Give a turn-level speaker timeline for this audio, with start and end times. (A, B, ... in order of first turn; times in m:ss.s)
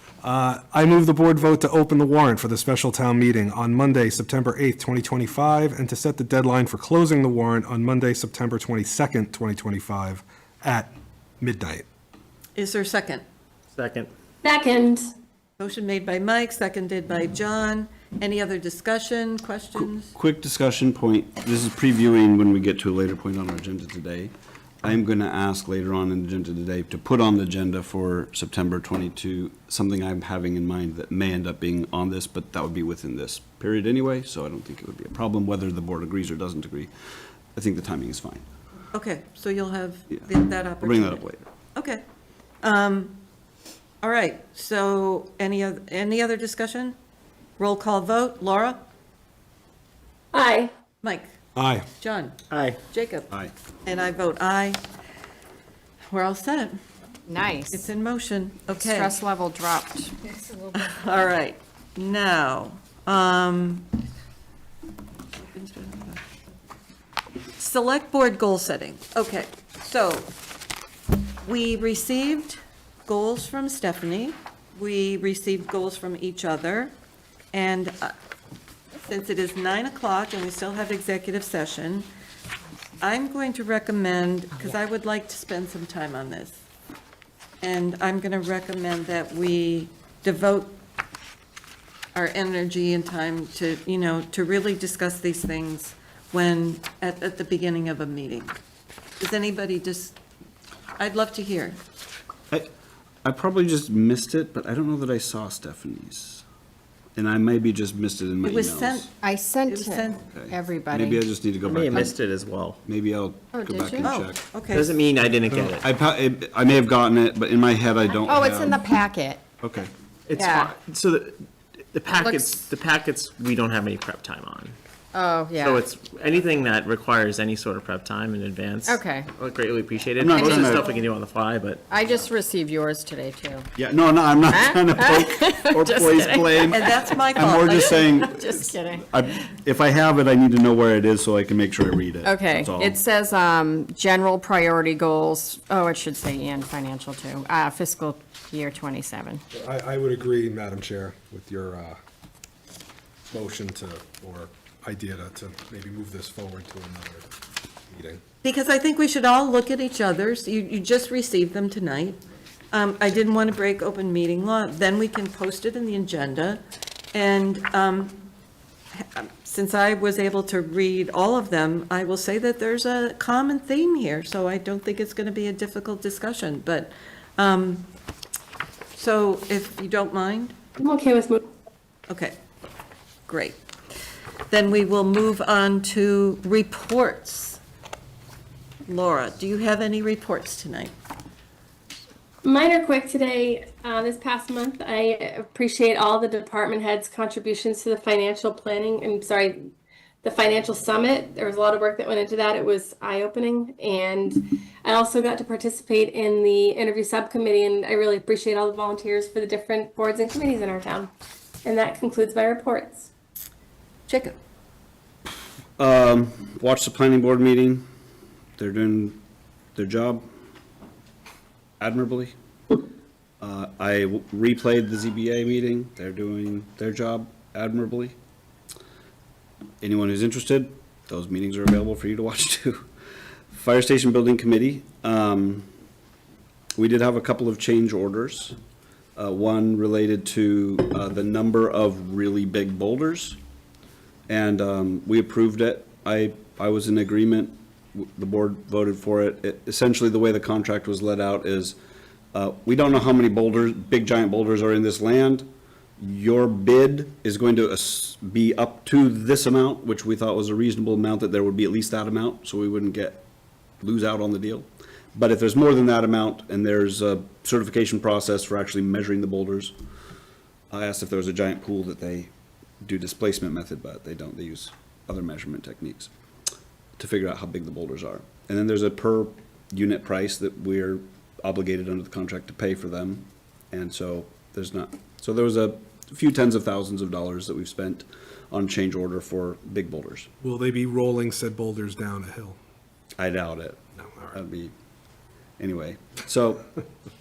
0:00.2-0:11.9 A
0:12.6-0:13.2 B
0:13.7-0:14.1 C
0:14.4-0:15.1 D
0:15.6-0:20.1 B
0:20.2-0:36.9 E
0:37.6-0:38.4 E
0:38.9-0:42.0 B
0:40.8-0:41.4 E
0:42.6-0:43.2 B
0:44.0-0:47.0 B
0:47.6-0:48.9 B
0:50.3-0:50.7 D
0:51.0-0:51.3 B
0:51.6-0:51.9 A
0:52.0-0:52.4 B
0:52.5-0:52.8 C
0:52.9-0:53.3 B
0:53.8-0:54.8 B
0:56.1-0:56.8 B
0:57.3-0:57.9 F
0:57.7-0:59.1 B
0:58.7-1:00.9 F
1:00.7-1:03.9 B
1:05.5-1:06.2 B
1:07.6-1:10.3 B
1:11.4-1:16.9 B
1:17.5-1:18.2 B
1:19.0-1:22.1 B
1:23.0-1:26.6 B
1:27.6-1:30.8 B
1:32.1-1:38.6 B
1:39.2-1:40.2 B
1:41.0-1:41.8 B
1:43.2-1:46.4 E
1:47.2-1:49.1 E
1:48.4-1:49.1 B
1:49.2-1:51.2 F
1:49.7-1:50.2 B
1:50.3-1:52.1 E
1:51.6-1:52.8 C
1:52.8-1:54.4 E
1:53.5-1:54.2 F
1:54.0-1:55.0 B
1:54.7-1:55.8 C
1:55.4-1:58.8 E
1:58.2-1:59.4 F
1:59.6-1:59.9 E
2:00.3-2:04.8 C
2:00.3-2:00.7 F
2:02.1-2:02.6 F
2:05.1-2:05.9 F
2:05.6-2:11.8 C
2:08.8-2:09.3 F
2:10.2-2:10.9 E
2:10.2-2:11.0 F
2:11.9-2:13.7 F
2:13.8-2:23.0 E
2:14.5-2:16.8 F
2:16.7-2:18.2 B
2:17.7-2:19.1 F
2:22.2-2:29.4 F
2:29.5-2:32.0 A
2:33.3-2:37.3 A
2:37.9-2:38.2 A
2:38.4-2:42.2 B
2:42.7-2:46.6 B
2:47.1-2:48.2 B
2:48.9-2:57.9 B
2:59.0-3:00.6 B
3:00.8-3:01.4 D
3:02.1-3:02.4 B
3:03.3-3:03.6 B
3:04.5-3:07.6 B
3:08.9-3:10.9 B
3:12.4-3:19.7 D
3:20.2-3:31.1 D
3:31.6-3:33.1 D
3:34.1-3:34.4 B
3:35.8-3:37.8 E
3:38.6-3:39.2 E
3:39.8-3:40.2 E
3:41.8-3:42.3 E
3:43.4-3:48.2 E
3:49.8-3:52.9 E
3:53.5-3:55.7 E
3:56.8-3:58.6 E
3:59.2-4:03.4 E
4:04.3-4:11.8 E
4:12.3-4:23.2 E
4:23.8-4:29.7 E
4:30.7-4:32.3 E
4:32.8-4:36.1 E
4:37.0-4:50.3 E
4:50.4-4:52.6 A
4:53.2-4:53.8 E
4:54.1-4:54.4 A
4:54.3-4:54.7 E
4:55.6-4:56.7 E